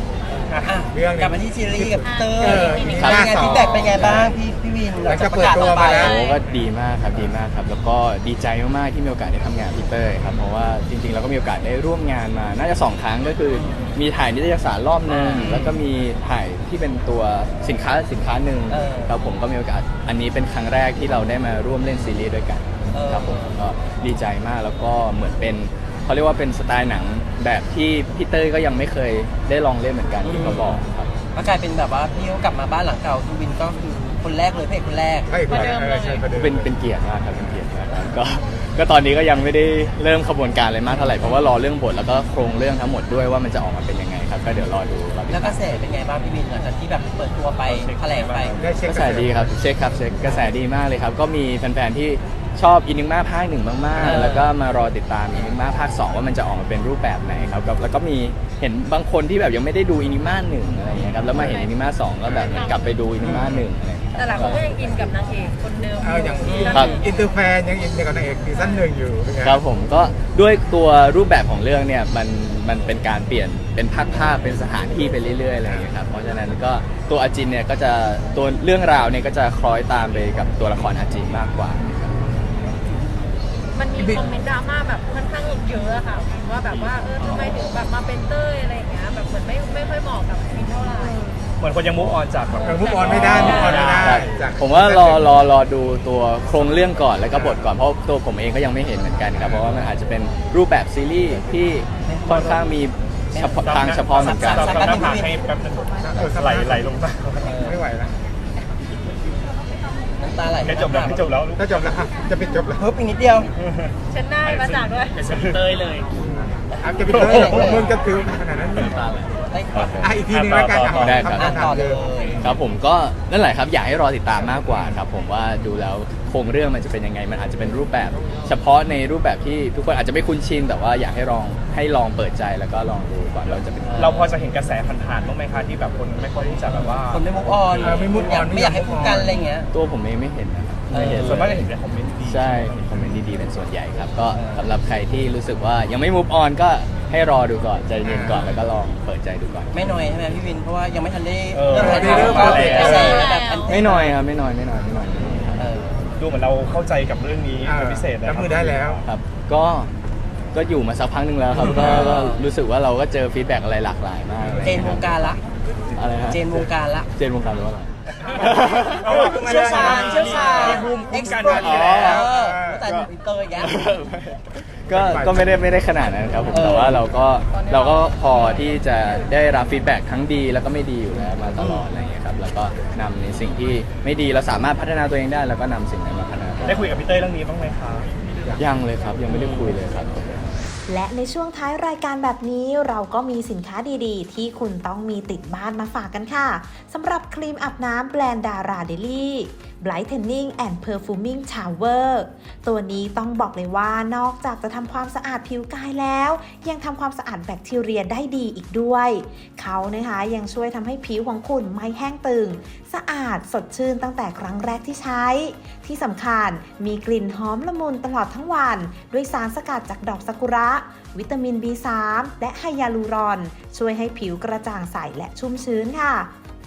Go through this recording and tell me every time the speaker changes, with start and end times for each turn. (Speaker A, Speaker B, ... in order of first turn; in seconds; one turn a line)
Speaker A: 0.3-6.2
Speaker B: 0.8-4.4
Speaker C: 2.1-2.4
Speaker D: 2.8-4.1
Speaker B: 4.9-6.6
Speaker D: 6.0-31.1
Speaker A: 13.5-14.0
Speaker A: 15.1-15.8
Speaker A: 18.7-19.1
Speaker A: 22.9-23.6
Speaker A: 30.2-30.8
Speaker A: 31.4-35.6
Speaker B: 35.3-36.7
Speaker C: 35.5-36.3
Speaker D: 36.3-45.6
Speaker A: 45.3-48.6
Speaker E: 47.6-48.7
Speaker B: 48.6-49.4
Speaker D: 48.8-65.1
Speaker A: 54.0-54.5
Speaker A: 60.9-61.5
Speaker C: 62.5-63.0
Speaker A: 63.2-63.6
Speaker C: 64.2-67.1
Speaker B: 66.0-69.6
Speaker A: 66.4-67.0
Speaker D: 66.7-67.0
Speaker C: 68.5-68.8
Speaker D: 69.4-82.1
Speaker C: 83.8-91.3
Speaker B: 84.0-84.4
Speaker A: 87.2-87.5
Speaker E: 91.6-94.2
Speaker C: 92.6-93.6
Speaker B: 92.6-95.3
Speaker D: 93.0-105.1
Speaker B: 97.3-97.6
Speaker A: 102.0-102.6
Speaker A: 103.3-105.4
Speaker E: 103.6-107.5
Speaker B: 106.0-106.8
Speaker A: 107.4-107.8
Speaker B: 107.6-108.2
Speaker A: 110.2-111.3
Speaker E: 110.6-111.9
Speaker B: 111.6-113.0
Speaker A: 112.9-113.5
Speaker E: 113.6-116.1
Speaker C: 114.1-115.3
Speaker B: 116.1-119.0
Speaker A: 117.0-117.9
Speaker E: 117.1-117.8
Speaker D: 118.9-120.1
Speaker A: 119.5-120.0
Speaker B: 120.0-122.0
Speaker E: 120.3-121.6
Speaker D: 121.0-121.6
Speaker A: 121.3-122.5
Speaker D: 122.4-134.4
Speaker A: 133.9-134.2
Speaker E: 134.0-138.1
Speaker A: 136.7-139.7
Speaker B: 137.8-139.4
Speaker D: 139.7-141.6
Speaker A: 140.9-141.6
Speaker E: 141.0-143.1
Speaker D: 142.2-149.8
Speaker A: 144.3-144.7
Speaker B: 148.0-148.6
Speaker A: 149.7-154.2
Speaker E: 151.5-153.3
Speaker B: 151.7-153.3
Speaker D: 152.1-153.1
Speaker C: 152.6-153.8
Speaker D: 153.7-155.7
Speaker A: 155.6-156.1
Speaker E: 156.1-159.0
Speaker B: 157.6-159.0
Speaker D: 159.0-159.9
Speaker D: 160.5-165.3
Speaker A: 161.6-162.4
Speaker B: 164.4-164.8
Speaker A: 164.6-165.4
Speaker D: 166.0-169.9
Speaker A: 166.3-167.1
Speaker E: 168.4-172.8
Speaker A: 169.1-173.8
Speaker B: 169.1-172.2
Speaker D: 170.5-170.8
Speaker D: 171.5-172.3
Speaker D: 172.9-186.9
Speaker B: 174.9-175.5
Speaker A: 176.5-177.1
Speaker A: 181.6-181.9
Speaker E: 186.6-188.1
Speaker D: 188.6-190.4
Speaker A: 189.3-189.8
Speaker F: 190.9-226.3